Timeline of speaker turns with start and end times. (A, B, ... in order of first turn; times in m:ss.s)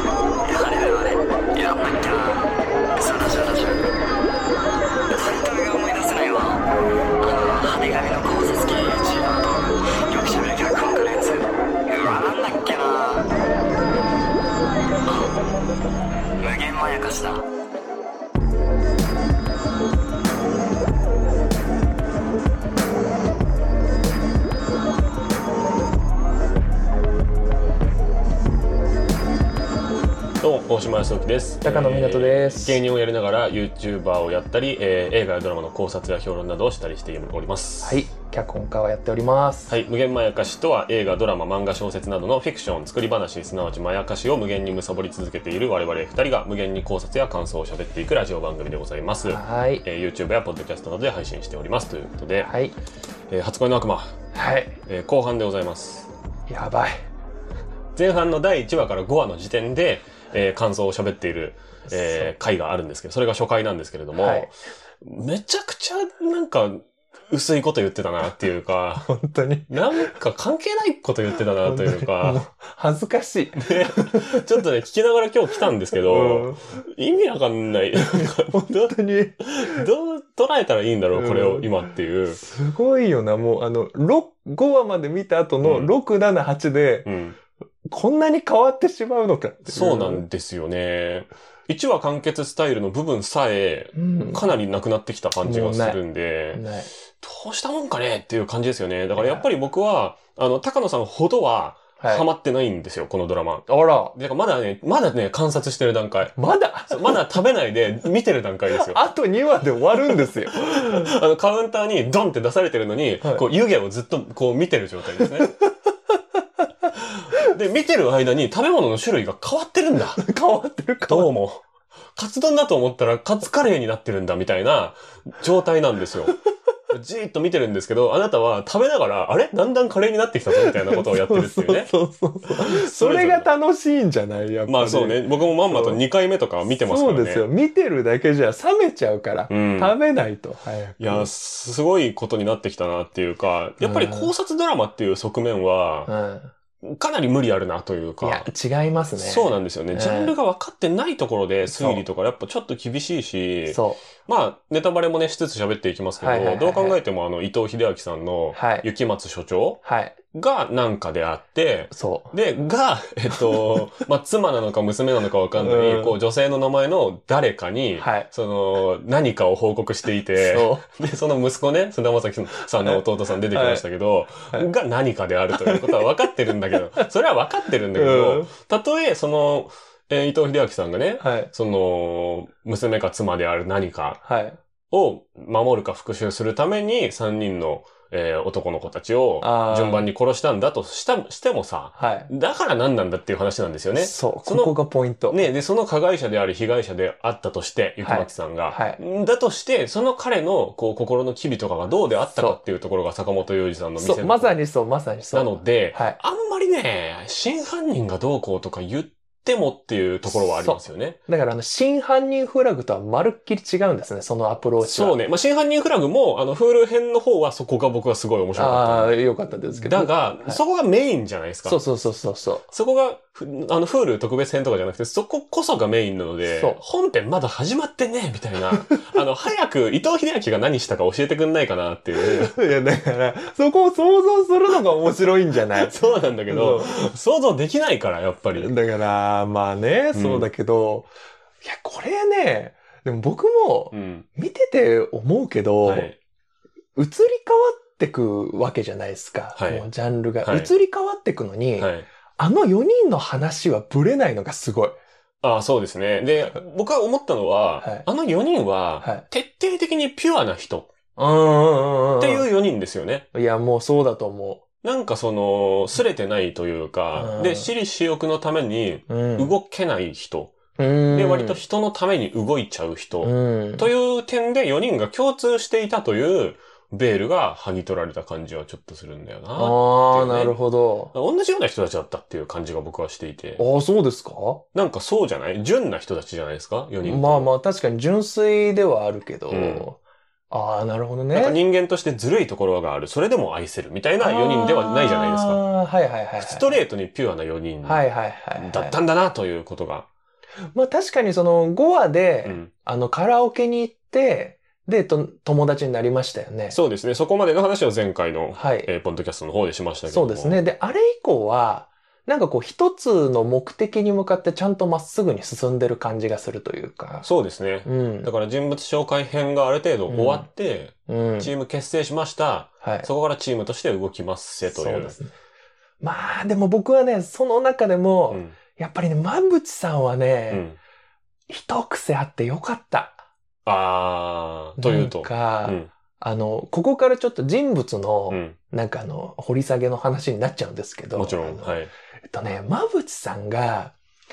0:00.4-0:03.9 A
0:05.1-0:06.6 A
0:07.2-0:13.3 A
0:15.1-0:15.3 A
0:16.4-0:17.4 A
0:30.4-0:38.0 B
0:31.6-0:32.8 C
0:37.8-0:39.7 C
0:39.7-0:52.5 B
0:49.2-0:49.8 C
0:52.4-0:52.7 C
0:53.3-0:54.2 B
0:54.3-0:54.8 C
0:54.8-0:56.1 B
0:56.5-0:57.0 C
0:57.9-1:09.1 B
1:01.9-1:02.3 C
1:04.2-1:04.5 C
1:09.0-1:10.1 C
1:09.7-1:12.4 B
1:11.6-1:14.6 C
1:13.6-1:18.9 B
1:16.0-1:16.8 C
1:18.0-1:19.8 C
1:19.4-1:22.4 B
1:21.1-1:21.7 C
1:22.3-1:27.1 C
1:25.6-1:25.9 B
1:27.0-1:27.4 B
1:27.9-1:30.2 C
1:29.6-1:36.6 B
1:33.9-1:34.5 C
1:35.4-1:36.0 C
1:36.5-1:36.9 C
1:37.2-1:46.3 B
1:39.2-1:39.4 C
1:42.0-1:42.2 C
1:43.7-1:44.1 C
1:46.4-1:47.4 C
1:46.9-1:49.0 B
1:48.7-1:51.1 C
1:50.0-1:55.5 B
1:53.2-1:53.5 C
1:55.2-1:55.7 C
1:56.9-2:00.2 B
2:00.2-2:01.3 C
2:01.1-2:06.3 B
2:06.9-2:11.9 B
2:10.5-2:16.0 C
2:12.6-2:13.5 B
2:14.7-2:17.4 B
2:16.7-2:21.3 C
2:19.5-2:19.9 B
2:21.0-2:26.1 B
2:23.8-2:24.3 C
2:26.1-2:26.5 C
2:26.8-2:28.5 B
2:28.2-2:30.3 C
2:29.2-3:04.2 B
2:31.7-2:32.0 C
2:33.7-2:34.0 C
2:36.2-2:37.0 C
2:38.5-2:38.8 C
2:39.8-2:40.1 C
2:41.9-2:42.3 C
2:43.5-2:43.8 C
2:45.6-2:46.2 C
2:48.0-2:48.3 C
2:50.4-2:50.8 C
2:52.8-2:53.8 C
2:55.6-2:56.0 C
2:57.9-2:58.5 C
3:01.2-3:01.5 C
3:04.2-3:04.6 C
3:04.9-3:14.7 B
3:09.4-3:10.1 C
3:12.0-3:12.3 C
3:14.0-3:15.4 C
3:15.3-3:24.6 B
3:18.0-3:19.0 C
3:22.3-3:22.6 C
3:24.0-3:26.2 C
3:25.3-3:31.2 B
3:30.3-3:35.2 C
3:34.8-3:39.1 B
3:38.5-3:40.6 C
3:39.7-3:41.8 B
3:41.6-3:42.7 C
3:42.7-3:52.5 B
3:46.4-3:46.8 C
3:48.7-3:49.0 C
3:52.2-3:55.9 C
3:55.7-3:58.7 B
3:56.5-3:56.9 C
3:58.6-4:01.1 C
4:00.1-4:00.5 B
4:01.6-4:06.1 C
4:03.9-4:04.2 B
4:05.8-4:06.2 B
4:07.0-4:15.0 C
4:09.6-4:09.9 B
4:10.4-4:10.7 B
4:11.8-4:12.1 B
4:15.4-4:20.9 B
4:17.8-4:18.0 C
4:21.2-4:22.5 C
4:22.2-4:23.2 B
4:23.3-4:24.6 C
4:24.8-4:30.6 B
4:27.1-4:27.7 C
4:29.1-4:29.5 C
4:30.8-4:31.6 C
4:31.1-4:40.6 B
4:33.2-4:33.9 C
4:39.5-4:41.1 C
4:41.1-4:43.6 B
4:43.6-4:44.6 C
4:44.7-4:47.5 B
4:47.0-4:50.0 C
4:49.5-4:49.9 B
4:50.5-4:51.6 C
4:51.3-4:55.6 B
4:54.2-4:56.8 C
4:56.4-4:58.0 B
4:57.8-4:58.9 C
4:58.6-5:00.1 B
5:00.7-5:06.8 C
5:02.4-5:02.7 B
5:06.7-5:10.7 B
5:08.5-5:08.9 C
5:10.1-5:17.3 C
5:17.2-5:25.2 B
5:17.8-5:18.3 C
5:20.1-5:20.5 C
5:21.1-5:21.5 C
5:22.8-5:23.1 C
5:24.6-5:25.3 C
5:26.0-5:30.6 C
5:28.3-5:28.6 B
5:30.5-5:30.8 B
5:31.5-5:33.2 C
5:33.6-5:35.9 B
5:34.8-5:43.9 C
5:38.3-5:38.6 B
5:41.1-5:41.9 B